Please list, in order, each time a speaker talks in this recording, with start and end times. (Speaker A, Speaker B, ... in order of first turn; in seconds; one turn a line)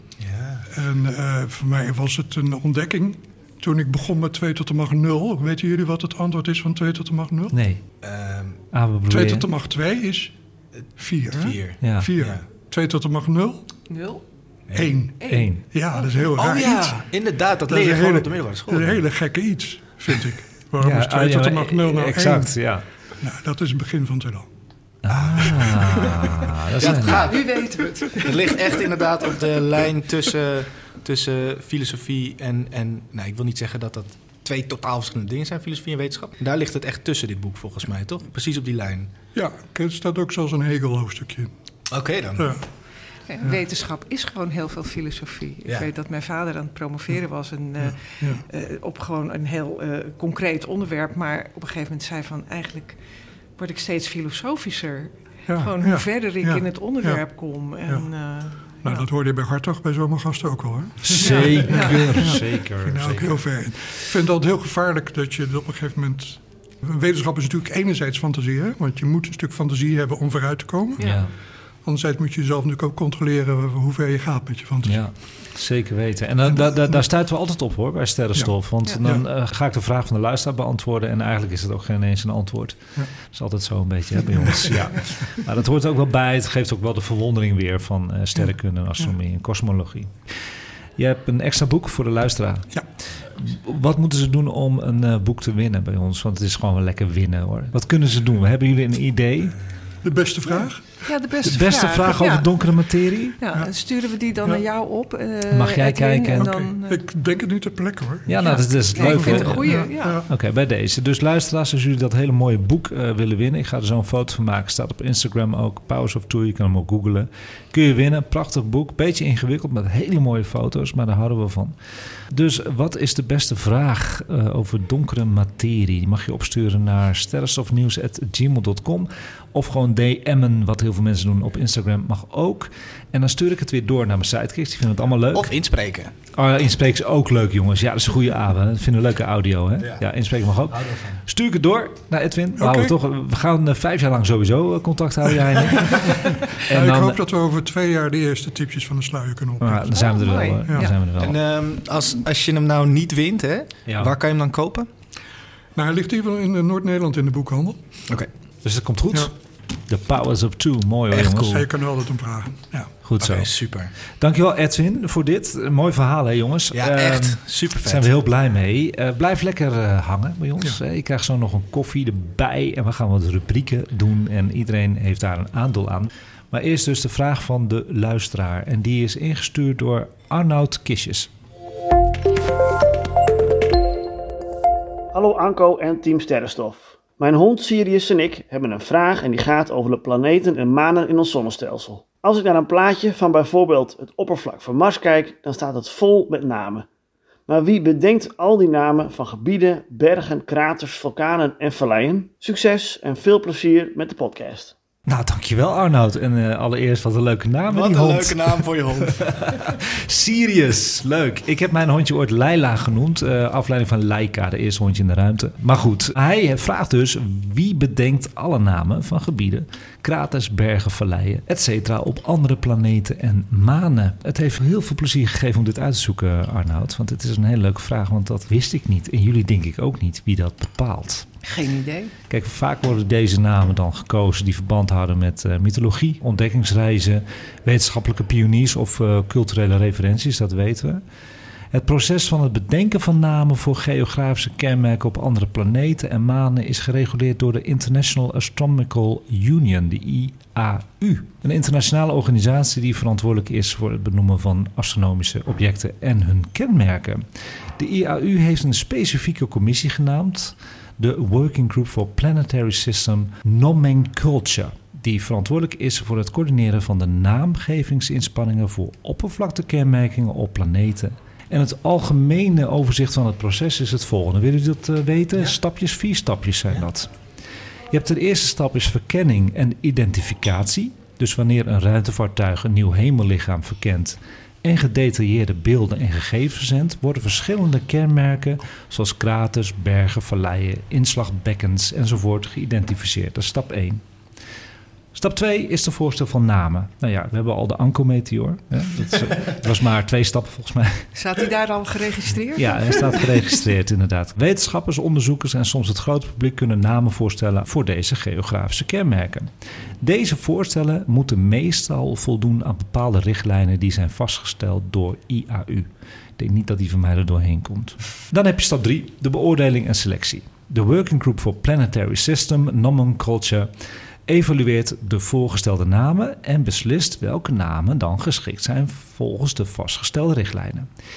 Speaker A: 0.2-0.7
Speaker B: 0.7-7.6
Speaker C: 7.5-7.8
Speaker A: 8.0-8.6
Speaker C: 8.7-9.5
Speaker B: 9.1-10.3
Speaker B: 11.0-13.6
Speaker A: 11.3-12.4
Speaker C: 11.8-12.1
Speaker D: 13.9-14.2
Speaker A: 14.7-14.9
Speaker B: 14.7-17.0
Speaker D: 15.2-16.1
Speaker C: 15.3-15.6
Speaker A: 16.3-19.0
Speaker B: 17.7-22.6
Speaker C: 20.8-22.8
Speaker B: 23.2-24.5
Speaker C: 25.0-27.3
Speaker A: 25.1-39.1
Speaker B: 25.4-26.2
Speaker D: 27.0-29.0
Speaker B: 39.3-41.5
Speaker A: 41.9-42.6
Speaker B: 42.3-42.6
Speaker D: 43.3-53.0
Speaker B: 47.8-48.4
Speaker D: 53.6-59.0
Speaker B: 55.5-57.2
Speaker B: 58.8-71.2
Speaker C: 61.0-63.4
Speaker D: 61.2-62.4
Speaker C: 71.0-71.3
Speaker B: 71.8-75.0
Speaker C: 74.8-90.3
Speaker B: 76.5-77.0
Speaker B: 78.3-79.2
Speaker B: 84.2-84.9
Speaker C: 91.0-99.6
Speaker B: 100.0-101.0
Speaker D: 101.0-102.5
Speaker C: 101.4-103.4
Speaker D: 103.4-107.0
Speaker C: 105.5-106.5
Speaker B: 106.3-110.3
Speaker C: 108.3-121.7
Speaker D: 108.4-110.2
Speaker C: 122.3-135.5
Speaker A: 135.3-136.1
Speaker C: 136.3-147.2
Speaker A: 140.7-141.2
Speaker B: 142.6-142.9
Speaker B: 146.7-150.0
Speaker C: 149.6-151.4
Speaker D: 149.9-150.9
Speaker A: 151.2-154.9
Speaker C: 153.9-154.1
Speaker B: 155.8-157.8
Speaker C: 158.6-159.3
Speaker C: 159.9-161.6
Speaker A: 161.1-161.6
Speaker B: 161.5-162.9
Speaker C: 163.0-163.5
Speaker A: 163.2-163.9
Speaker C: 164.2-181.3
Speaker A: 166.7-168.1
Speaker E: 185.1-196.8
Speaker E: 197.5-204.7
Speaker C: 205.1-231.3
Speaker A: 207.7-209.7
Speaker D: 231.4-232.1
Speaker C: 232.3-241.0
Speaker C: 241.7-257.2
Speaker C: 257.8-277.1
Speaker C: 277.9-294.0
Speaker C: 295.1-301.1
Speaker D: 301.1-303.2
Speaker C: 302.6-309.5
Speaker C: 310.0-323.7
Speaker C: 324.3-330.9